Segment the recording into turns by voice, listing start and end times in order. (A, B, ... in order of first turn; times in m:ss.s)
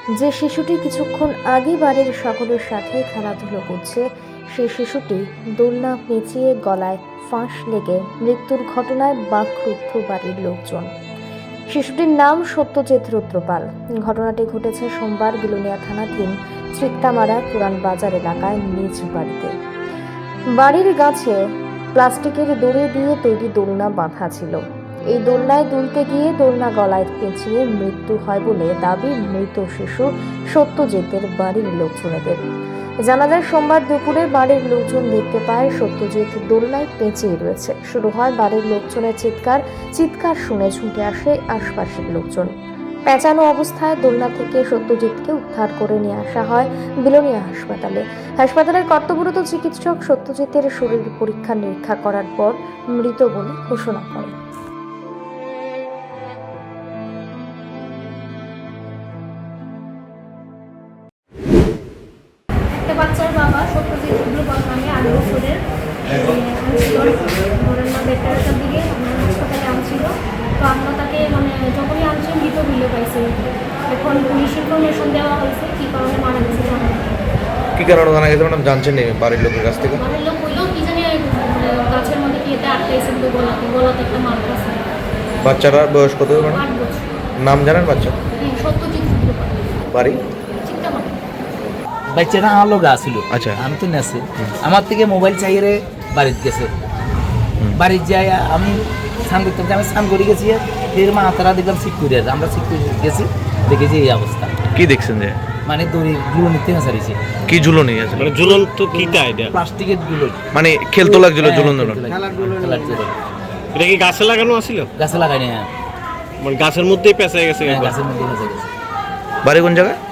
0:00.2-0:10.9 A
0:11.7-0:19.5 A
0:20.6-0:21.4 A
0:22.0-0:32.4 A
0:33.0-0:42.5 A
0:43.1-0:54.4 A
1:02.7-1:13.3 B
1:13.9-1:17.2 B
1:17.8-1:20.0 C
1:20.0-1:24.9 B
1:25.4-1:26.6 C
1:26.5-1:27.0 B
1:27.4-1:28.2 C
1:28.4-1:29.5 B
1:29.9-1:30.2 C
1:30.6-1:31.2 B
1:32.1-1:36.7 D
1:33.3-1:33.6 C
1:37.7-1:44.5 D
1:44.7-1:45.4 C
1:45.7-1:47.2 D
1:47.5-1:48.4 C
1:48.2-1:49.5 E
1:49.5-1:50.4 D
1:50.5-1:52.0 C
1:51.0-1:53.2 D
1:53.7-1:54.9 E
1:55.0-1:55.7 D
1:56.4-1:58.0 E
1:57.6-1:58.7 D
1:59.4-2:00.0 C